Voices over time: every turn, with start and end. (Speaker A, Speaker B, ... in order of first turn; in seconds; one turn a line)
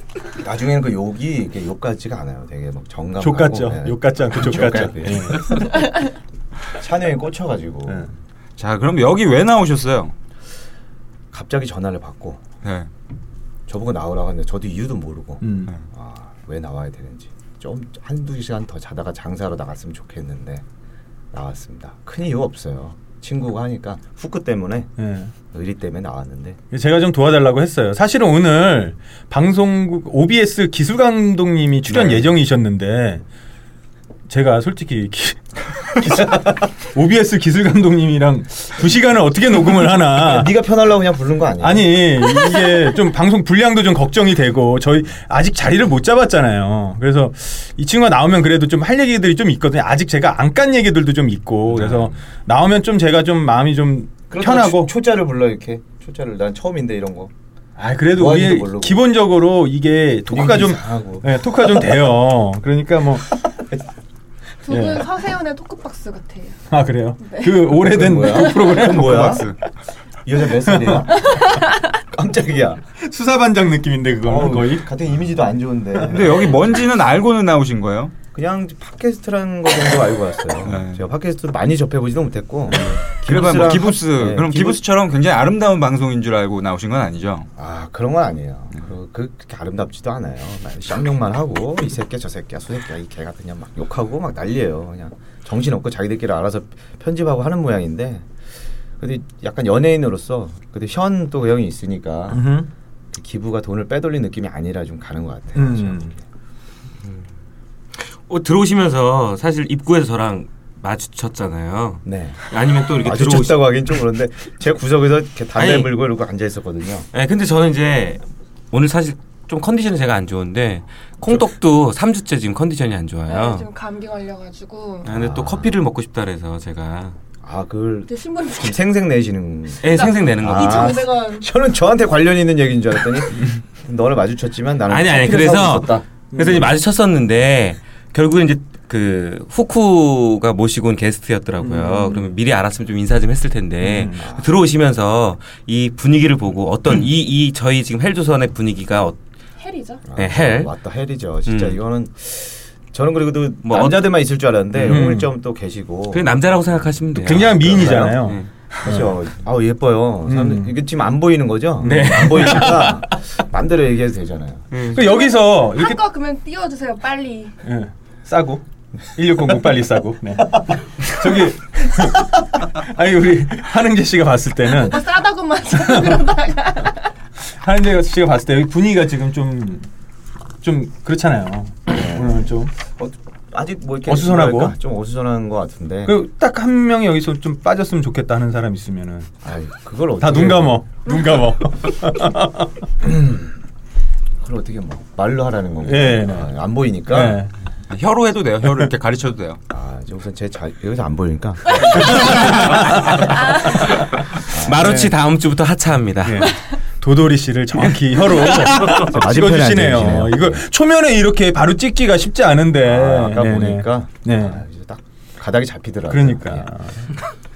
Speaker A: 0.4-5.7
Speaker B: 3.2-5.8
Speaker C: 5.7-6.0
Speaker A: 6.8-8.1
Speaker D: 8.6-10.1
Speaker A: 11.3-12.4
Speaker D: 12.6-12.9
Speaker A: 13.7-20.6
Speaker B: 15.4-15.7
Speaker A: 21.3-24.9
Speaker B: 25.0-25.3
Speaker A: 25.5-26.6
Speaker B: 26.7-33.2
Speaker A: 31.9-32.3
Speaker B: 34.3-40.5
Speaker A: 40.0-42.2
Speaker B: 41.6-54.9
Speaker E: 51.8-52.0
Speaker A: 54.3-57.3
Speaker B: 57.8-63.4
Speaker A: 58.1-59.0
Speaker A: 60.2-62.0
Speaker C: 64.6-66.6
Speaker B: 64.7-65.0
Speaker B: 66.7-69.4
Speaker C: 67.2-68.7
Speaker A: 67.8-69.5
Speaker D: 68.6-69.5
Speaker A: 70.2-72.8
Speaker B: 70.7-71.1
Speaker C: 71.2-71.7
Speaker B: 73.0-74.9
Speaker A: 74.2-76.8
Speaker D: 76.0-78.1
Speaker A: 78.3-84.8
Speaker D: 80.6-81.0
Speaker D: 82.8-87.5
Speaker A: 87.6-98.3
Speaker A: 99.0-102.5
Speaker B: 102.3-102.7
Speaker A: 103.1-106.2
Speaker B: 105.5-106.1
Speaker E: 108.0-113.9
Speaker A: 112.0-112.4
Speaker A: 112.9-117.1
Speaker E: 115.5-115.9
Speaker E: 117.1-123.7
Speaker C: 123.3-125.1
Speaker E: 125.0-127.2
Speaker A: 125.1-125.7
Speaker A: 127.4-136.1
Speaker C: 128.1-128.8
Speaker E: 129.8-131.1
Speaker C: 129.9-131.5
Speaker E: 134.9-149.2
Speaker B: 136.3-136.7
Speaker B: 143.8-144.2
Speaker A: 144.2-144.5
Speaker C: 149.6-150.0
Speaker A: 150.1-156.4
Speaker E: 150.1-150.7
Speaker E: 151.4-151.8
Speaker E: 153.6-155.2
Speaker B: 154.8-155.3
Speaker E: 156.1-158.5
Speaker B: 157.2-159.1
Speaker A: 157.3-164.7
Speaker B: 160.2-160.7
Speaker E: 161.8-162.9
Speaker B: 161.8-163.0
Speaker E: 164.7-165.0
Speaker B: 164.9-166.0
Speaker C: 164.9-167.6
Speaker B: 167.6-168.6
Speaker B: 169.1-175.2
Speaker C: 174.7-177.1
Speaker B: 175.7-176.3
Speaker B: 177.6-179.9
Speaker B: 180.6-182.7
Speaker A: 181.9-186.2
Speaker B: 184.1-184.7
Speaker B: 186.1-189.3
Speaker A: 189.4-190.8
Speaker B: 190.2-192.7
Speaker A: 193.0-193.6
Speaker A: 194.4-197.4
Speaker B: 195.8-196.5
Speaker B: 197.1-197.5
Speaker D: 197.9-199.6
Speaker A: 199.7-202.9
Speaker B: 201.9-204.0
Speaker E: 202.7-206.5
Speaker C: 203.3-203.7
Speaker A: 204.4-205.1
Speaker B: 204.8-205.1
Speaker B: 206.2-214.6
Speaker A: 208.8-210.6
Speaker A: 212.8-216.7
Speaker B: 216.1-217.1